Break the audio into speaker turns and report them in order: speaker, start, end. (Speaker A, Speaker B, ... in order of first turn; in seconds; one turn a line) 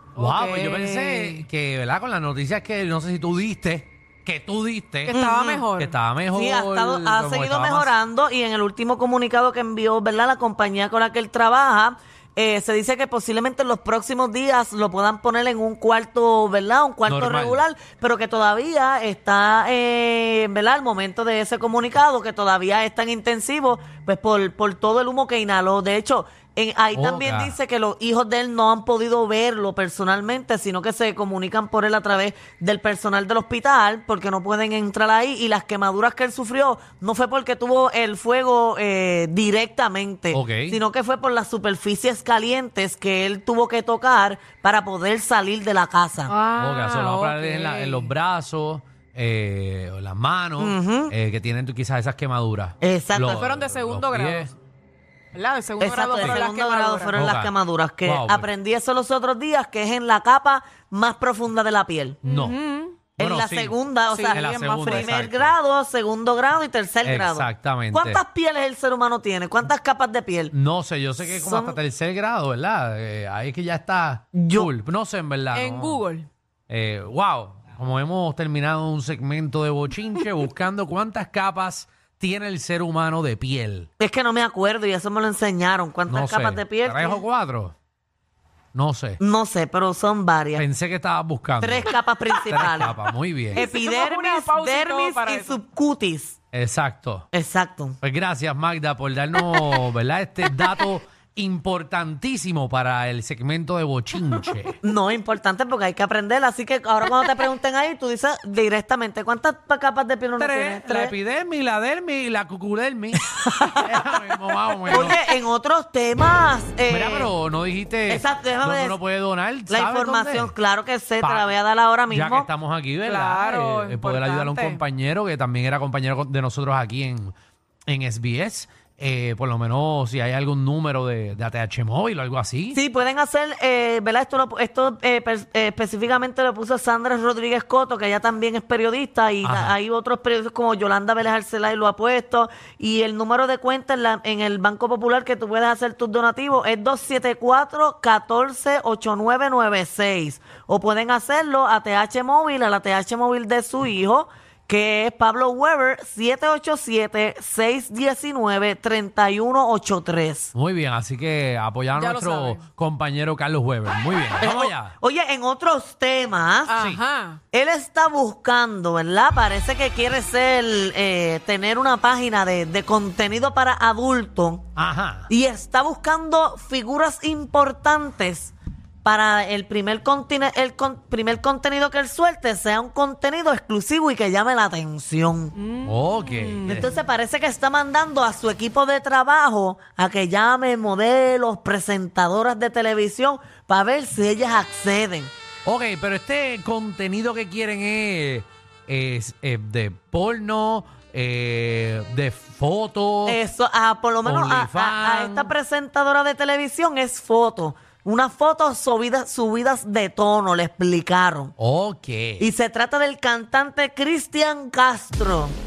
Speaker A: 0.2-1.4
Speaker B: 0.2-5.2
Speaker A: 5.1-5.9
Speaker C: 5.1-5.7
Speaker B: 5.8-7.9
Speaker C: 6.3-46.3
Speaker B: 17.1-17.6
Speaker B: 26.9-27.6
Speaker B: 40.3-40.8
Speaker A: 46.3-48.1
Speaker B: 46.6-54.5
Speaker C: 50.6-51.1
Speaker C: 52.8-53.4
Speaker A: 53.3-54.5
Speaker A: 55.3-57.2
Speaker C: 55.8-62.2
Speaker B: 57.1-58.5
Speaker B: 62.2-62.6
Speaker A: 62.2-63.0
Speaker B: 63.2-65.6
Speaker C: 63.2-70.5
Speaker A: 64.1-65.1
Speaker B: 67.0-68.2
Speaker B: 70.5-76.0
Speaker C: 71.2-71.8
Speaker C: 74.3-74.7
Speaker A: 75.5-76.3
Speaker B: 76.7-83.9
Speaker C: 84.0-87.2
Speaker B: 86.1-87.7
Speaker B: 88.7-89.2
Speaker C: 89.2-90.6
Speaker B: 90.6-91.9
Speaker C: 91.6-93.0
Speaker B: 92.5-93.6
Speaker C: 93.6-96.4
Speaker A: 93.6-95.6
Speaker B: 96.5-97.3
Speaker C: 97.3-98.0
Speaker B: 98.0-104.8
Speaker C: 104.8-111.2
Speaker B: 110.4-115.2
Speaker C: 113.5-114.0
Speaker C: 114.9-117.3
Speaker B: 116.9-120.5
Speaker C: 118.1-119.0
Speaker C: 119.7-122.5
Speaker B: 121.2-121.5
Speaker B: 122.1-127.3
Speaker A: 123.0-124.8
Speaker B: 127.9-132.8
Speaker C: 132.7-160.5
Speaker B: 139.4-139.8
Speaker B: 160.5-164.9
Speaker A: 162.0-162.7
Speaker C: 164.4-166.7
Speaker A: 166.7-167.4
Speaker C: 167.5-174.7
Speaker B: 174.8-175.3
Speaker C: 175.3-185.5
Speaker A: 185.6-186.7
Speaker B: 185.8-186.9
Speaker C: 186.7-195.3
Speaker B: 195.7-203.4
Speaker C: 203.3-211.5
Speaker B: 204.2-205.5
Speaker B: 211.6-212.4
Speaker C: 212.4-215.6